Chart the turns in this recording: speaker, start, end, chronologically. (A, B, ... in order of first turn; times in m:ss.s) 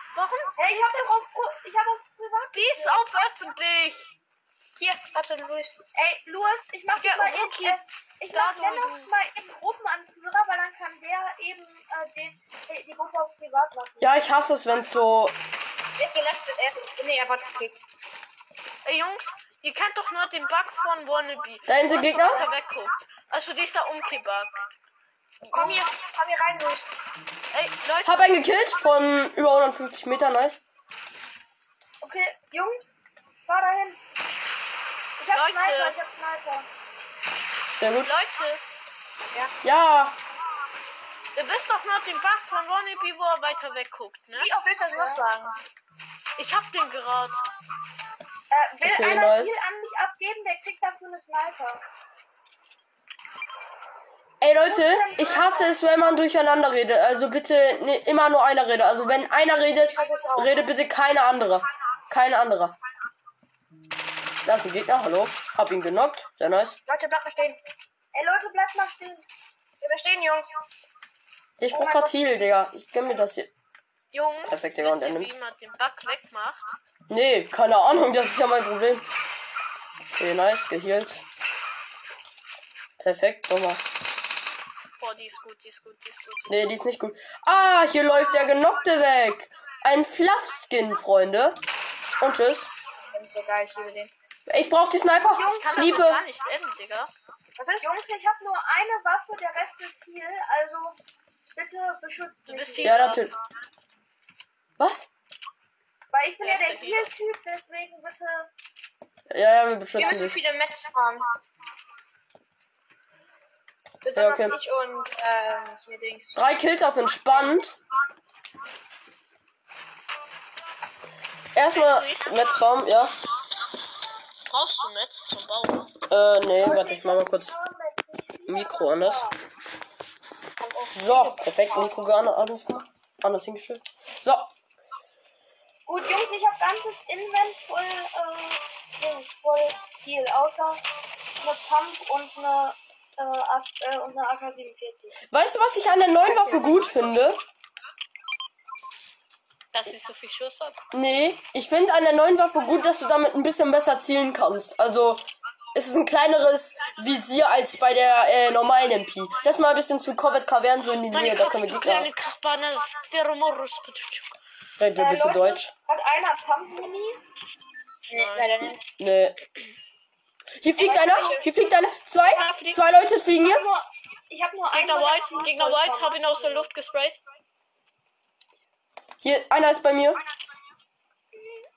0:00.1-0:00.9 A
0:00.6-0:03.1 B
0:02.5-0:04.1 A
0:04.8-0:05.8 C
0:05.9-0:14.2 B
0:06.9-0:07.8 A
0:08.3-0:09.1 A
0:14.0-0:15.4 D
0:16.0-0:17.8 C
0:18.8-0:24.7 A
0:21.7-0:22.4 D
0:22.0-0:22.4 B
0:25.5-0:26.9 C
0:25.5-0:25.9 A
0:27.5-0:28.3 A
0:28.0-0:30.6 D
0:32.0-0:32.9 B
0:33.5-0:34.0 B
0:35.2-0:36.7 B
0:35.3-0:36.0 A
0:37.8-0:38.1 D
0:38.0-0:38.6 A
0:39.6-0:40.2 D
0:41.3-0:44.5 A
0:44.3-0:45.6 C
0:44.9-0:45.2 B
0:46.4-0:47.4 A
0:48.5-0:51.8 B
0:48.8-0:49.5 D
0:54.4-1:02.7 D
0:54.6-0:55.8 B
0:59.9-1:00.6 C
1:04.4-1:06.8 D
1:06.9-1:07.6 C
1:08.1-1:09.2 B
1:09.8-1:10.5 C
1:11.6-1:13.5 D
1:11.7-1:12.2 B
1:14.1-1:16.6 A
1:14.5-1:15.3 D
1:17.1-1:19.0 D
1:20.2-1:21.2 D
1:23.0-1:23.8 D
1:25.0-1:26.6 A
1:26.5-1:31.6 D
1:32.2-1:32.7 D
1:33.1-1:34.1 C
1:34.5-1:36.2 D
1:35.3-1:35.9 B
1:35.4-1:37.1 A
1:37.6-1:37.9 C
1:37.8-1:41.0 B
1:41.5-1:43.0 B
1:42.5-1:43.3 A
1:42.8-1:43.3 D
1:44.8-1:45.1 D
1:46.1-1:48.5 B
1:46.4-1:47.1 A
1:49.3-1:50.4 D
1:50.0-1:51.3 C
1:54.0-1:56.4 C
1:54.1-1:54.6 D
1:56.3-1:57.8 D
2:01.5-2:03.2 D
2:01.7-2:02.4 A
2:04.5-2:05.9 A
2:06.1-2:07.5 D
2:06.6-2:09.4 B
2:08.5-2:09.2 D
2:10.6-2:11.9 C
2:10.9-2:14.5 D
2:15.9-2:20.8 B
2:21.4-2:25.2 B
2:25.3-2:27.4 D
2:26.2-2:27.0 B
2:29.7-2:30.8 A
2:30.9-2:42.1 D
2:41.1-2:44.4 A
2:44.8-2:45.7 D
2:45.0-2:47.2 B
2:48.1-2:48.8 C
2:48.1-2:48.7 A
2:49.0-2:49.4 D
2:50.6-2:53.6 D
2:50.8-2:51.5 C
2:52.2-2:52.8 A
2:53.4-2:56.7 B
2:54.7-2:57.2 A
2:59.2-3:00.2 D